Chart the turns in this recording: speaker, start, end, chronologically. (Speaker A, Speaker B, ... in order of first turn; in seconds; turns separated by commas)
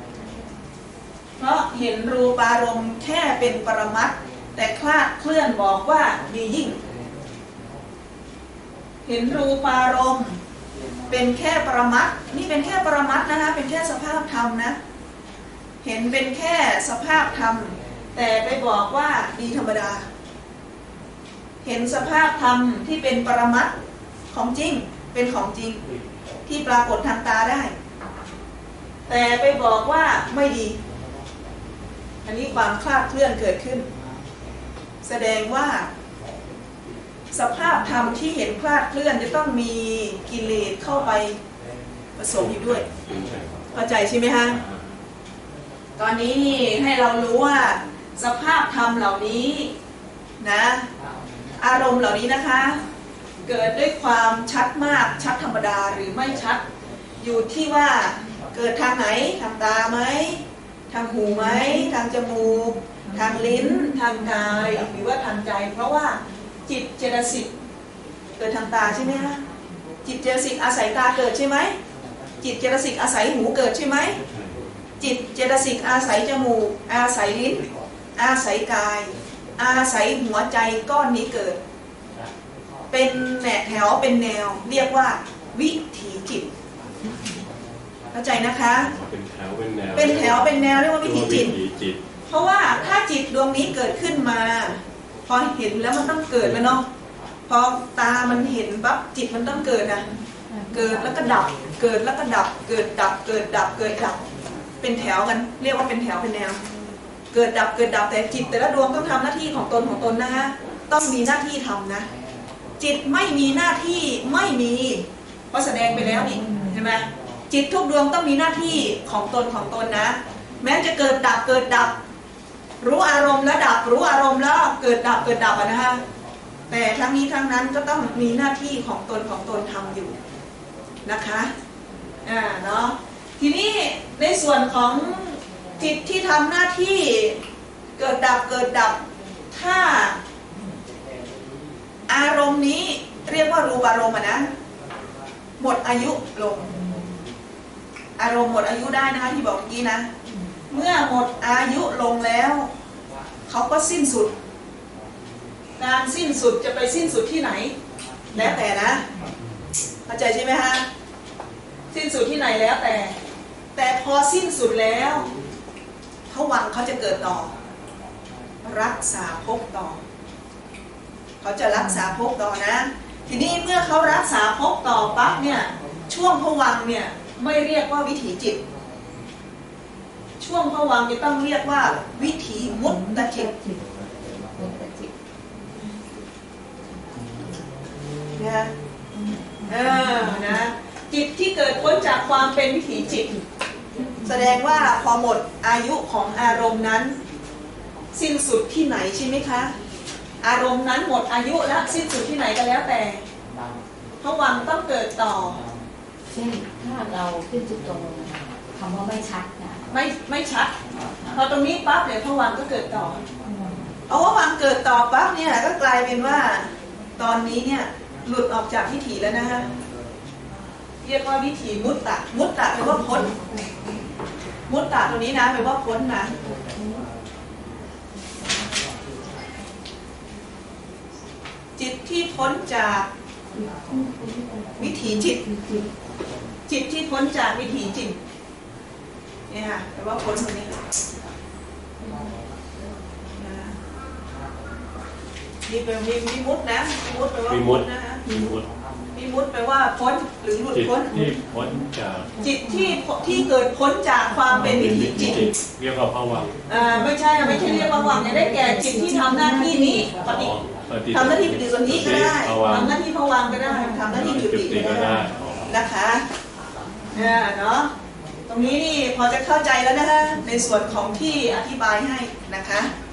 Speaker A: 1.4-6.8, Speaker A: 9.1-10.4, Speaker A: 11.1-14.8, Speaker A: 15.8-20.1, Speaker A: 21.6-23.7, Speaker A: 24.3-25.8, Speaker A: 26.5-27.7, Speaker A: 29.1-30.8, Speaker A: 32.2-33.9, Speaker A: 35.0-35.9, Speaker A: 37.3-41.4, Speaker A: 42.2-42.8, Speaker B: 42.4-43.8, Speaker A: 43.7-44.6, Speaker B: 44.5-45.0, Speaker A: 46.0-49.7, Speaker A: 50.4-50.9, Speaker A: 51.6-52.8, Speaker A: 53.5-56.6, Speaker A: 57.2-67.5, Speaker A: 68.4-69.4, Speaker A: 70.0-71.8, Speaker A: 72.4-74.2, Speaker B: 74.3-74.8, Speaker A: 75.0-81.6, Speaker A: 82.9-86.5, Speaker C: 87.0-87.4, Speaker A: 88.1-88.9, Speaker B: 88.8-92.0, Speaker A: 90.0-91.6, Speaker A: 92.3-96.9, Speaker B: 96.4-96.8, Speaker A: 97.5-100.2, Speaker C: 100.5-100.9, Speaker A: 100.7-104.2, Speaker A: 104.8-106.6, Speaker A: 107.3-112.1, Speaker A: 112.8-122.0, Speaker C: 116.0-116.8, Speaker A: 122.8-126.0, Speaker A: 126.7-130.2, Speaker A: 131.1-131.5, Speaker A: 132.2-137.4, Speaker A: 138.0-140.2, Speaker A: 142.1-144.5, Speaker A: 145.6-146.8, Speaker A: 148.2-150.1, Speaker A: 150.7-152.7, Speaker A: 153.5-154.3, Speaker A: 155.8-157.7, Speaker A: 158.3-159.1, Speaker A: 160.1-160.9, Speaker A: 161.9-163.2, Speaker A: 163.8-165.3, Speaker A: 166.3-167.5, Speaker A: 168.6-170.0, Speaker A: 171.4-178.6, Speaker A: 180.4-183.5, Speaker C: 182.9-183.8, Speaker C: 184.6-185.1, Speaker A: 188.4-188.7, Speaker A: 189.7-193.4, Speaker A: 194.2-197.2, Speaker A: 198.1-199.7, Speaker A: 200.4-203.2, Speaker A: 204.2-205.7, Speaker C: 206.3-209.9, Speaker A: 209.9-210.7, Speaker A: 211.3-213.2, Speaker C: 213.4-213.9, Speaker A: 214.1-219.7, Speaker A: 221.0-223.4, Speaker C: 222.8-223.8, Speaker A: 224.7-226.3, Speaker C: 226.5-227.1, Speaker A: 231.8-233.1, Speaker C: 233.5-235.9, Speaker A: 234.8-235.4, Speaker A: 236.7-238.2, Speaker A: 239.5-240.8, Speaker C: 242.0-242.4, Speaker A: 243.4-243.8, Speaker A: 245.7-248.3, Speaker B: 247.5-248.7, Speaker A: 249.1-251.2, Speaker B: 250.7-252.3, Speaker A: 252.4-255.5, Speaker B: 254.6-256.5, Speaker A: 256.7-260.5, Speaker C: 257.4-260.2, Speaker B: 260.2-262.9, Speaker A: 261.1-266.2, Speaker B: 264.1-265.7, Speaker A: 267.1-267.9, Speaker A: 268.5-272.9